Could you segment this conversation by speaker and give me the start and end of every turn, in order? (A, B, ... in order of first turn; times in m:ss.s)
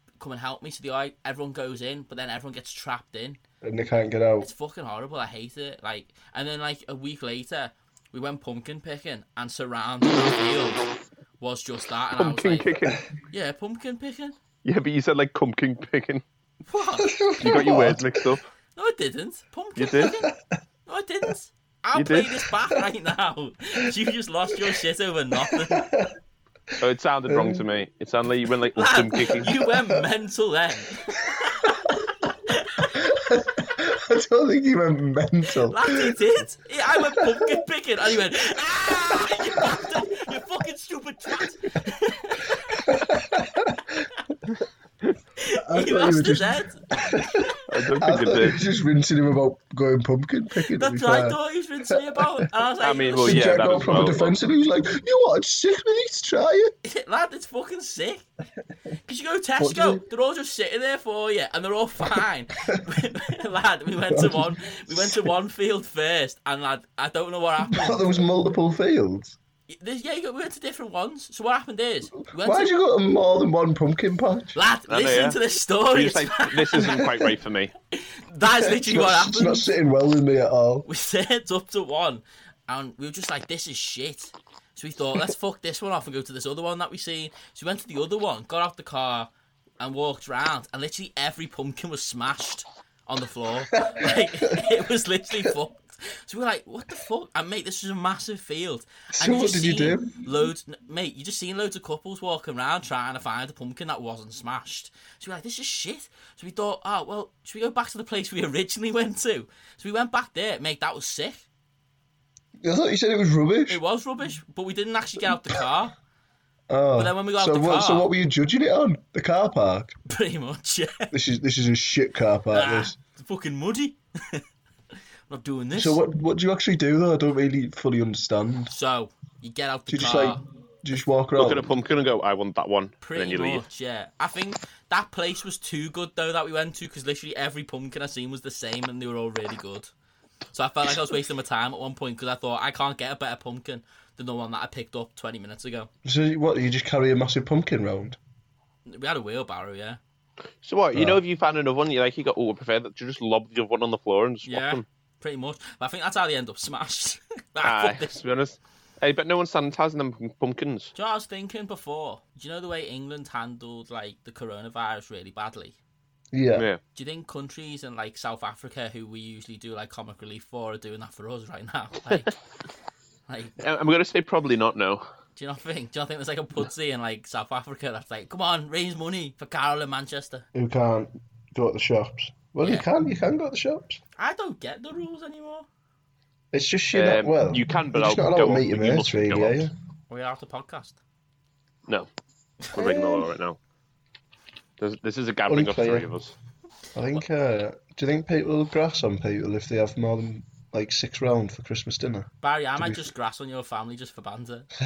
0:00.2-0:03.4 A
0:03.6-0:04.5 B
0:04.4-0:10.8 A
0:11.4-0:14.4 A
0:12.2-0:13.0 C
0:14.6-0:16.2 C
0:16.6-0:17.2 A
0:17.0-0:18.3 B
0:17.4-0:18.5 C
0:18.7-0:20.3 A
0:19.8-0:20.2 C
0:20.8-0:25.9 A
0:21.9-0:22.4 C
0:25.4-0:26.1 B
0:26.8-0:29.5 C
0:27.3-0:27.6 B
0:28.8-0:33.0 A
0:29.3-0:30.0 B
0:32.9-0:36.2 B
0:35.7-0:42.9 A
0:37.1-0:37.6 B
0:39.6-0:39.9 B
0:42.7-0:44.0 B
0:45.4-0:46.9 A
0:45.6-0:51.4 B
0:47.7-0:48.6 C
0:50.7-0:54.0 A
0:52.8-0:54.3 C
0:53.2-0:56.7 B
0:56.8-0:58.2 A
0:59.0-1:08.2 A
0:59.6-1:00.0 B
1:04.1-1:05.3 B
1:07.6-1:09.4 B
1:09.7-1:12.7 A
1:12.3-1:14.6 B
1:14.5-1:17.0 A
1:14.9-1:17.7 C
1:17.9-1:19.7 A
1:18.4-1:20.9 B
1:20.8-1:51.4 A
1:33.7-1:34.6 B
1:39.1-1:40.2 B
1:52.6-1:53.8 B
1:53.7-1:55.9 A
1:56.7-1:59.9 B
1:56.9-1:58.1 A
2:00.1-2:01.1 A
2:01.1-2:03.0 B
2:02.5-2:04.4 A
2:05.3-2:06.0 A
2:05.7-2:08.7 B
2:08.7-2:10.4 A
2:09.9-2:11.7 B
2:11.4-2:13.6 C
2:13.0-2:19.9 A
2:20.5-2:25.9 A
2:26.0-2:28.2 B
2:28.8-2:30.0 A
2:30.6-2:34.8 C
2:30.9-2:31.2 B
2:34.4-2:38.2 A
2:37.6-2:40.9 C
2:40.9-2:45.8 A
2:46.3-2:46.7 B
2:46.5-2:46.8 C
2:46.9-2:52.4 A
2:53.3-2:53.6 A
2:53.6-2:55.0 C
2:55.4-3:00.4 A
3:00.5-3:04.0 B
3:04.2-3:05.7 A
3:06.5-3:09.7 B
3:06.9-3:09.7 C
3:10.1-3:11.0 A
3:12.6-3:13.3 A
3:12.7-3:13.6 C
3:14.8-3:16.3 C
3:15.5-3:16.1 B
3:16.9-3:23.0 B
3:22.4-3:24.7 A